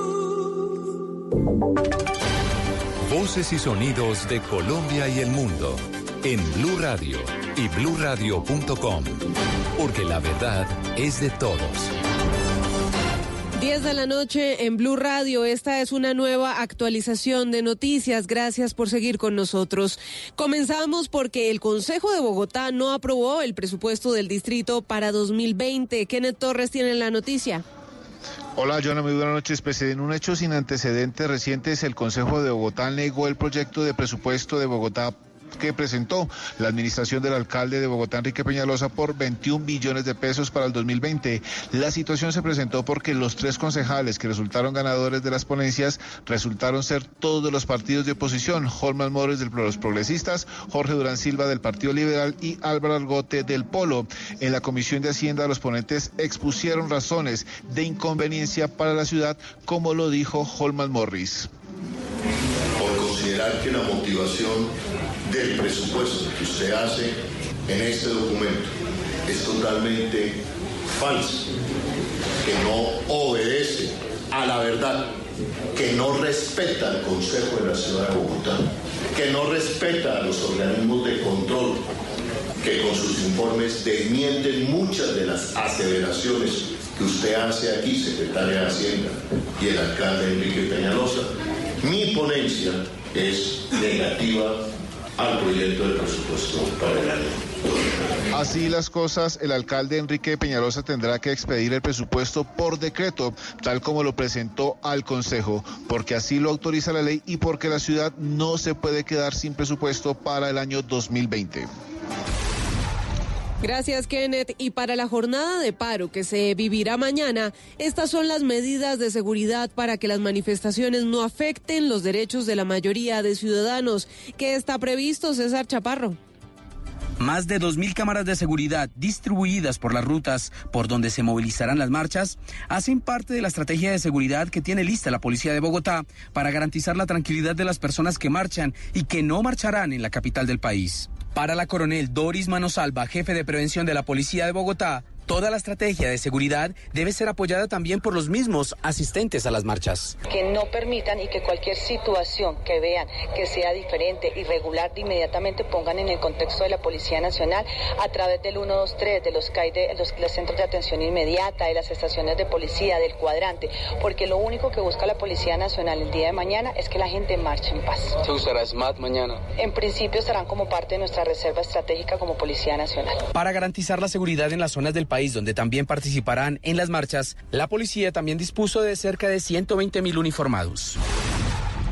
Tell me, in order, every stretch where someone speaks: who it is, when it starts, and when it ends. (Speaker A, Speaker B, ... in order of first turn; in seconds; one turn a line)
Speaker A: 3.0-9.2
Speaker A: 9.8-11.9
Speaker B: 13.6-27.6
Speaker C: 28.6-61.5
Speaker D: 62.8-64.7
Speaker D: 65.3-68.7
Speaker D: 69.3-70.4
Speaker D: 71.0-71.5
Speaker D: 72.4-75.1
Speaker D: 75.8-81.9
Speaker D: 82.6-91.3
Speaker D: 91.8-94.6
Speaker D: 95.2-97.8
Speaker C: 98.4-111.7
Speaker B: 113.6-126.2
Speaker E: 127.2-149.8
Speaker F: 150.3-168.2
Speaker F: 169.6-173.2
Speaker E: 173.3-181.0